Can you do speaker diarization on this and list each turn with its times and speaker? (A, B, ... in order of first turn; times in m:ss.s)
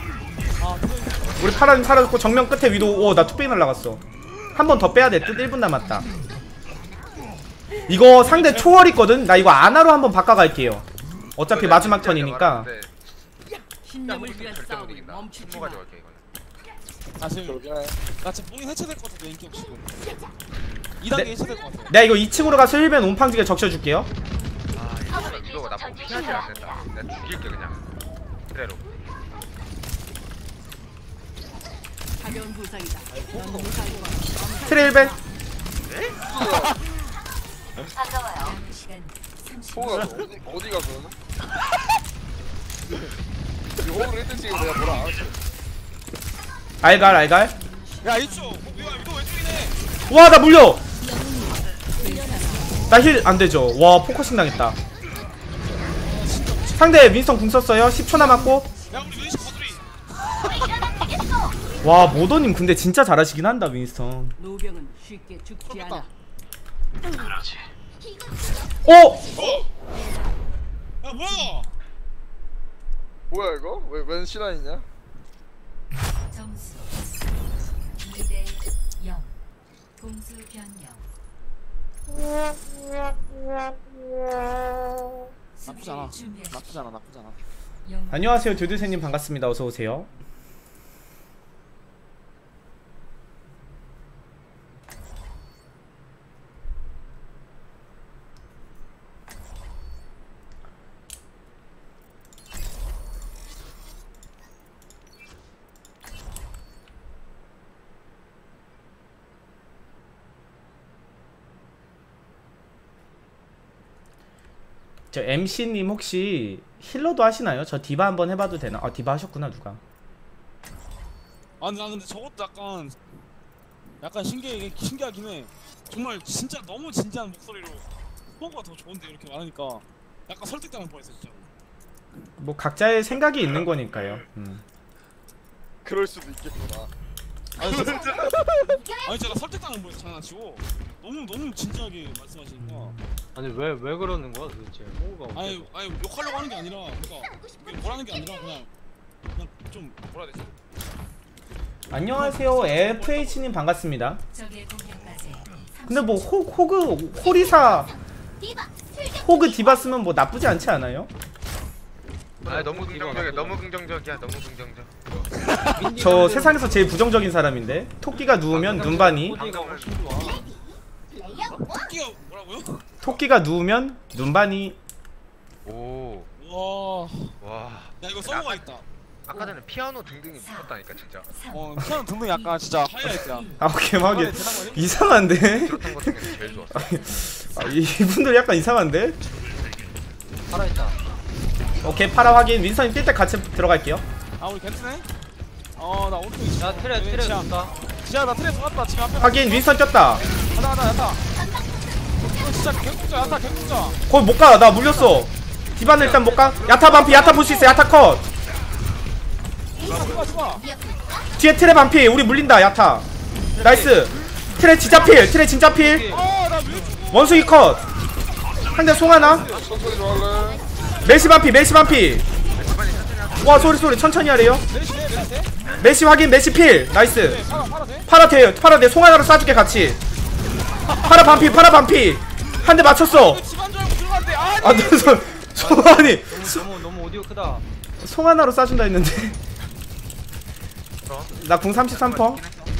0:00.6-0:01.8 A
0:01.4-0:04.0 B
0:04.5-0:06.0 B
0:07.9-0:10.8 B
0:08.2-0:08.9 A
0:11.4-0:12.7 B
0:11.5-0:12.9 C
0:13.9-0:15.8 D
0:13.9-0:16.2 C
0:17.2-0:17.6 A
0:17.5-0:18.0 E
0:18.2-0:20.0 A
0:21.0-0:21.9 A
0:21.9-0:24.1 B
0:24.7-0:27.8 C
0:28.5-0:28.8 C
0:32.2-0:35.1 D
0:34.6-0:35.2 B
0:35.9-0:36.2 C
0:36.3-0:36.7 E
0:38.2-0:40.0 F
0:39.7-0:41.1 E
0:43.8-0:45.3 E
0:46.8-0:47.6 B
0:48.0-0:49.8 A
0:50.1-0:50.8 B
0:51.2-0:51.4 F
0:52.0-0:52.7 F
0:52.9-0:54.8 B
0:56.0-0:57.0 A
0:56.8-0:58.7 B
0:58.9-0:59.8 A
1:01.8-1:04.4 B
1:04.4-1:06.0 D
1:05.7-1:06.1 A
1:08.8-1:09.3 B
1:09.4-1:09.6 A
1:11.0-1:11.7 A
1:13.3-1:14.8 E
1:16.3-1:16.9 F
1:18.0-1:19.3 F
1:20.0-1:21.0 F
1:25.6-1:27.4 A
1:26.0-1:26.5 F
1:27.8-1:28.2 F
1:28.1-1:30.1 B
1:55.1-1:59.8 B
2:01.6-2:03.0 A
2:04.0-2:07.8 A
2:08.4-2:11.5 A
2:12.4-2:14.6 B
2:15.8-2:16.9 E
2:17.6-2:22.9 A
2:23.3-2:25.7 G
2:25.3-2:28.7 A
2:29.3-2:30.5 A
2:31.9-2:34.2 B
2:32.2-2:33.4 A
2:34.3-2:36.0 F
2:35.9-2:37.9 B
2:39.1-2:41.1 B
2:42.4-2:44.9 C
2:42.5-2:43.6 G
2:45.7-2:46.9 G
2:45.9-2:49.4 B
2:48.5-2:50.2 C
2:48.7-2:50.4 G
2:51.6-2:52.8 A
2:53.0-2:54.8 B
2:55.6-2:56.3 C
2:56.4-2:57.4 A
2:57.4-2:58.6 C
2:58.0-2:58.8 A
2:59.2-3:01.3 C
3:01.5-3:05.1 A
3:03.6-3:09.2 B
3:05.5-3:06.9 C
3:10.5-3:11.0 G
3:11.8-3:14.0 B
3:14.4-3:15.1 A
3:15.8-3:21.2 A
3:16.6-3:17.8 G
3:19.2-3:20.2 B
3:22.2-3:24.0 A
3:23.3-3:23.5 E
3:24.1-3:28.2 B
3:26.4-3:27.8 A
3:29.8-3:30.7 A
3:31.4-3:33.0 B
3:33.6-3:33.9 G
3:33.6-3:36.1 B
3:35.6-3:36.2 G
3:36.1-3:37.5 A
3:37.1-3:37.8 B
3:38.7-3:39.5 B
3:39.0-3:39.8 A
3:39.4-3:40.6 E
3:41.0-3:42.2 B
3:42.6-3:43.9 C
3:43.4-3:44.6 B
3:44.7-3:45.5 A
3:45.8-3:47.4 B
3:47.0-3:48.1 A
3:48.1-3:50.0 B
3:50.8-3:51.6 A
3:50.9-3:53.4 B
3:53.0-3:55.5 A
3:54.6-3:56.7 B
3:55.6-3:57.6 G
3:58.0-3:59.4 B
4:01.0-4:01.4 C
4:01.3-4:02.4 B